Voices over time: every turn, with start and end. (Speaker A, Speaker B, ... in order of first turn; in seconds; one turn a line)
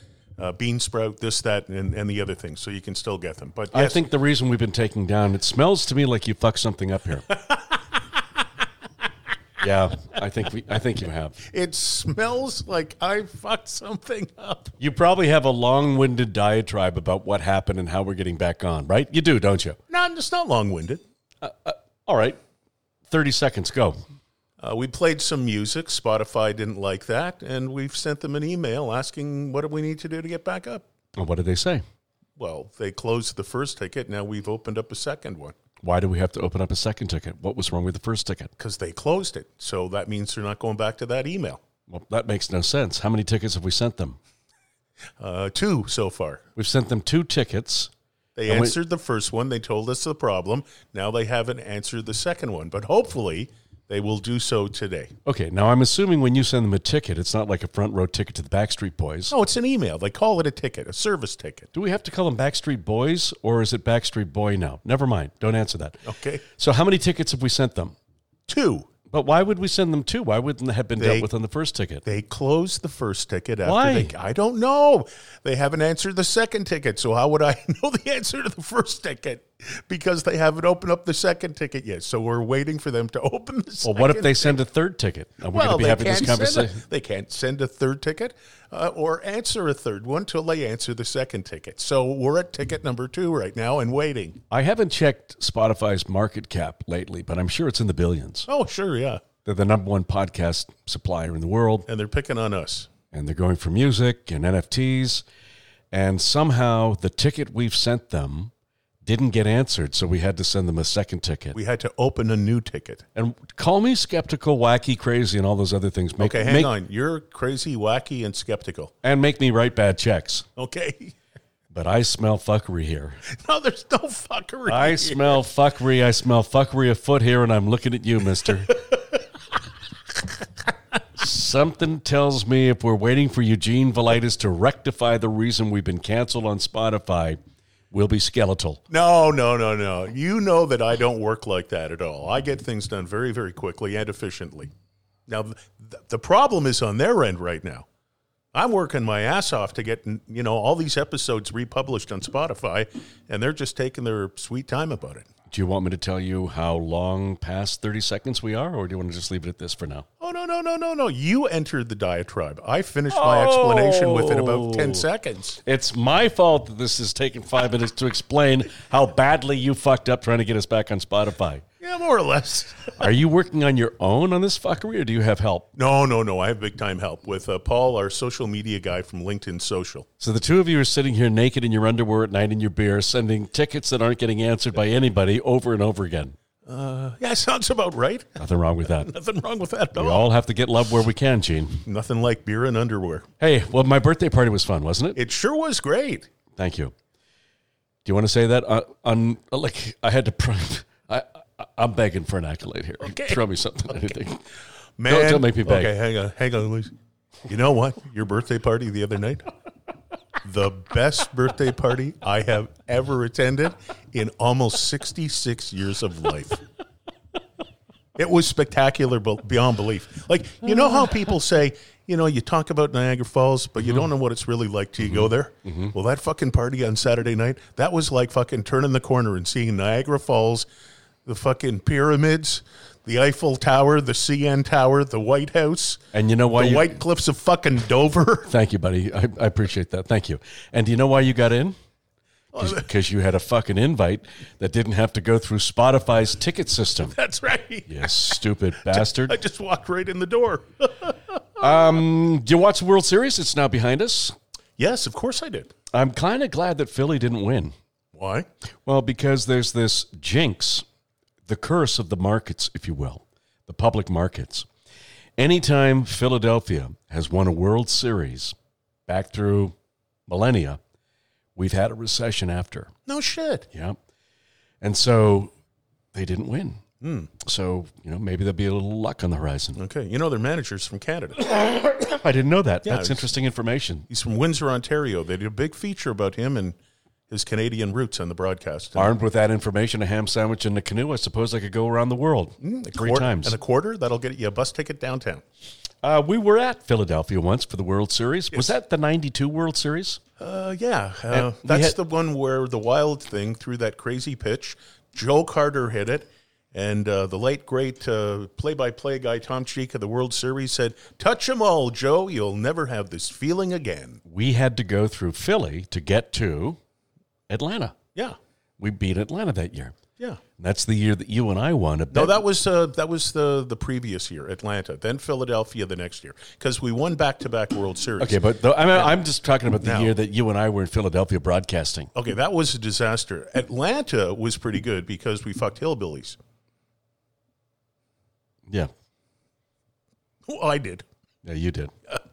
Speaker A: 0.4-4.0
Speaker B: 3.7-7.3
Speaker B: 9.6-11.4
Speaker A: 11.5-14.7
Speaker B: 14.8-19.8
Speaker A: 19.9-21.0
Speaker B: 21.4-22.4
Speaker B: 23.1-24.0
Speaker A: 24.6-30.8
Speaker B: 31.1-31.8
Speaker A: 32.4-35.5
Speaker B: 35.8-38.5
Speaker A: 38.6-41.6
Speaker B: 41.9-44.2
Speaker A: 45.2-46.4
Speaker B: 46.6-47.9
Speaker A: 48.4-55.1
Speaker B: 48.5-48.8
Speaker B: 55.2-59.4
Speaker A: 59.3-61.7
Speaker B: 61.7-68.0
Speaker A: 66.1-66.4
Speaker A: 68.5-68.9
Speaker B: 69.0-72.0
Speaker A: 72.1-84.6
Speaker B: 73.6-74.2
Speaker B: 83.8-86.8
Speaker A: 85.6-94.4
Speaker B: 94.5-98.5
Speaker A: 98.5-99.2
Speaker B: 99.5-101.9
Speaker A: 101.9-102.9
Speaker B: 103.1-105.2
Speaker B: 105.9-108.5
Speaker B: 109.0-111.6
Speaker A: 111.6-113.0
Speaker B: 113.2-116.8
Speaker A: 116.4-118.9
Speaker B: 119.0-120.5
Speaker A: 120.6-121.1
Speaker B: 121.7-123.2
Speaker A: 123.3-125.2
Speaker B: 124.7-128.9
Speaker A: 128.9-129.2
Speaker B: 131.2-137.4
Speaker B: 137.9-138.8
Speaker A: 138.9-144.7
Speaker A: 145.3-147.8
Speaker A: 148.6-155.3
Speaker B: 155.5-160.1
Speaker A: 160.2-165.6
Speaker B: 163.1-165.1
Speaker B: 165.6-171.6
Speaker A: 171.8-172.9
Speaker B: 172.9-175.7
Speaker A: 175.8-180.1
Speaker B: 180.2-186.4
Speaker A: 186.7-188.4
Speaker B: 188.4-189.1
Speaker A: 189.0-190.2
Speaker B: 189.9-191.9
Speaker A: 191.9-193.2
Speaker B: 193.4-195.2
Speaker A: 195.2-196.3
Speaker B: 196.5-196.9
Speaker B: 198.1-204.5
Speaker A: 205.0-206.9
Speaker B: 205.1-206.0
Speaker A: 207.5-209.4
Speaker A: 210.4-216.6
Speaker A: 218.2-230.7
Speaker B: 225.0-226.0
Speaker A: 231.3-236.0
Speaker B: 236.1-237.0
Speaker A: 236.6-238.5
Speaker B: 238.5-241.8
Speaker B: 242.5-247.2
Speaker A: 247.2-248.1
Speaker B: 247.9-249.4
Speaker A: 248.9-251.6
Speaker B: 251.6-254.3
Speaker A: 254.8-255.7
Speaker B: 255.9-257.7
Speaker A: 258.1-258.5
Speaker B: 258.9-260.9
Speaker B: 261.4-264.7
Speaker B: 265.4-268.6
Speaker B: 269.1-269.8
Speaker B: 270.3-270.8
Speaker B: 271.6-272.9
Speaker A: 273.1-273.6
Speaker B: 273.7-274.0
Speaker B: 274.8-275.5
Speaker B: 276.1-276.8
Speaker A: 277.0-277.3
Speaker B: 277.4-279.8
Speaker A: 279.8-281.4
Speaker B: 281.6-284.1
Speaker A: 282.9-283.2
Speaker A: 284.1-286.8
Speaker A: 287.3-289.1
Speaker B: 288.9-293.6
Speaker A: 292.6-295.4
Speaker B: 296.0-300.2
Speaker A: 300.4-314.2
Speaker B: 301.3-302.0
Speaker B: 314.3-316.8
Speaker B: 317.5-318.0
Speaker B: 318.8-320.0
Speaker B: 320.6-322.4
Speaker A: 322.1-328.4
Speaker B: 328.2-332.1
Speaker A: 329.8-330.1
Speaker A: 332.1-336.4
Speaker A: 340.5-341.0
Speaker B: 341.4-341.9